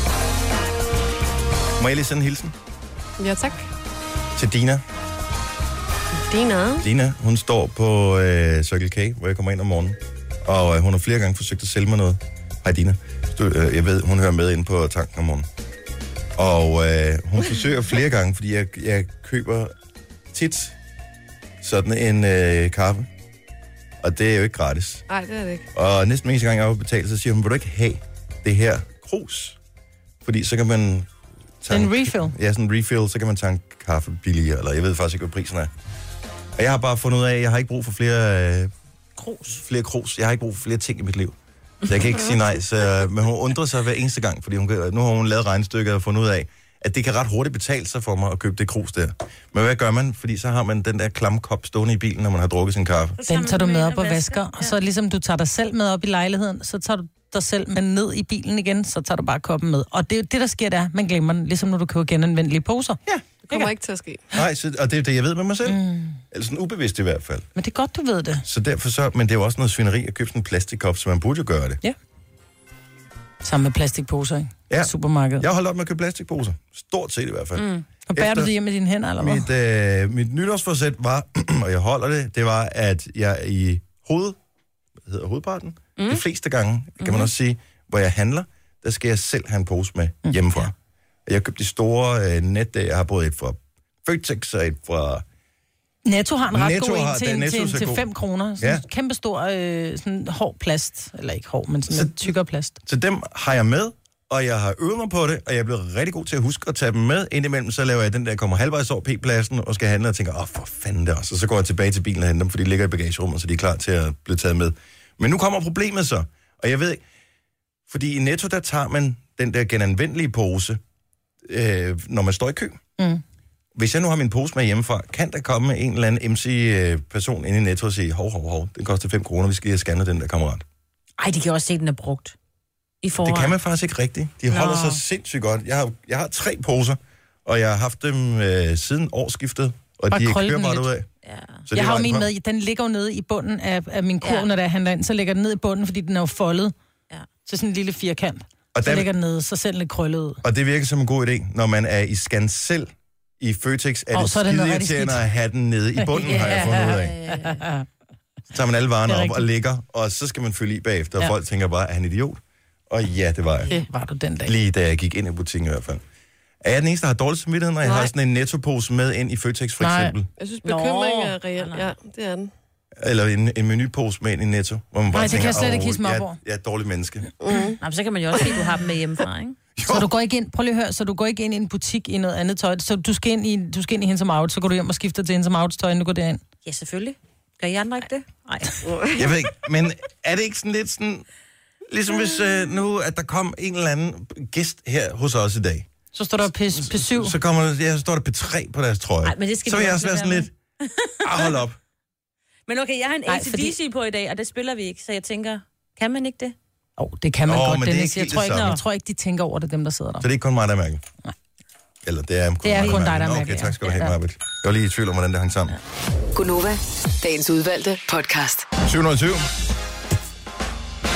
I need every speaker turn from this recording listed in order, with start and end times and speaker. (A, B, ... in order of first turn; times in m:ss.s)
0:01.8-0:02.5 A
0:03.2-0:03.7 B
0:04.4-0:04.8 A
0:06.2-0:06.8 B
0:06.8-0:15.5 A
0:16.4-0:19.7 A
0:20.3-0:20.8 A
0:21.6-0:23.1 A
0:24.0-0:25.1 A
0:25.1-0:25.7 B
0:25.7-0:29.6 A
0:30.2-0:31.1 A
0:31.6-0:35.7 A
0:31.7-0:32.3 C
0:36.6-0:38.7 A
0:39.2-0:39.4 C
0:39.4-0:41.3 A
0:41.8-0:53.2 A
0:53.2-0:54.7 D
0:53.3-1:03.7 C
1:03.5-1:04.2 B
1:04.3-1:07.5 A
1:05.6-1:06.2 C
1:07.5-1:08.4 C
1:08.4-1:11.8 A
1:13.4-1:15.4 C
1:14.7-1:18.5 A
1:17.6-1:17.8 D
1:18.1-1:19.4 C
1:19.2-1:24.4 A
1:25.0-1:30.7 A
1:26.0-1:26.2 D
1:27.0-1:27.3 D
1:31.2-1:35.2 A
1:36.0-1:42.8 C
1:36.5-1:38.0 A
1:41.9-1:42.3 A
1:42.8-1:57.0 A
1:57.9-2:00.8 A
2:01.4-2:02.8 A
2:03.7-2:10.6 A
2:11.2-2:12.3 D
2:13.0-2:13.6 D
2:13.2-2:21.1 A
2:14.5-2:15.0 C
2:20.1-2:20.9 C
2:21.2-2:21.6 D
2:21.7-2:22.3 A
2:21.7-2:26.7 C
2:27.4-2:30.4 C
2:28.7-2:29.1 A
2:30.4-2:37.2 A
2:34.1-2:35.2 C
2:36.0-2:37.8 C
2:36.2-2:37.6 D
2:38.5-2:43.7 A
2:39.1-2:39.4 C
2:43.7-2:44.5 C
2:44.4-2:46.0 A
2:46.6-2:50.3 A
2:47.8-2:48.1 B
2:49.8-2:50.1 C
2:50.4-2:52.5 B
2:50.6-2:51.9 D
2:53.0-2:57.3 A
2:55.1-2:56.4 C
2:57.4-2:57.8 B
2:57.8-2:59.6 D
2:59.8-3:00.1 A
2:59.8-3:06.4 C
3:06.6-3:08.9 D
3:08.9-3:09.2 B
3:09.1-3:11.2 A
3:11.9-3:15.9 A
3:16.1-3:17.4 C
3:16.7-3:20.5 A
3:19.2-3:21.6 D
3:21.2-3:21.8 A
3:22.7-3:26.6 D
3:23.3-3:23.7 C
3:27.0-3:30.2 C
3:27.4-3:28.8 A
3:28.5-3:28.8 D
3:30.2-3:31.0 A
3:32.0-3:35.8 A
3:32.6-3:34.1 C
3:36.3-3:38.7 E
3:38.8-3:39.5 A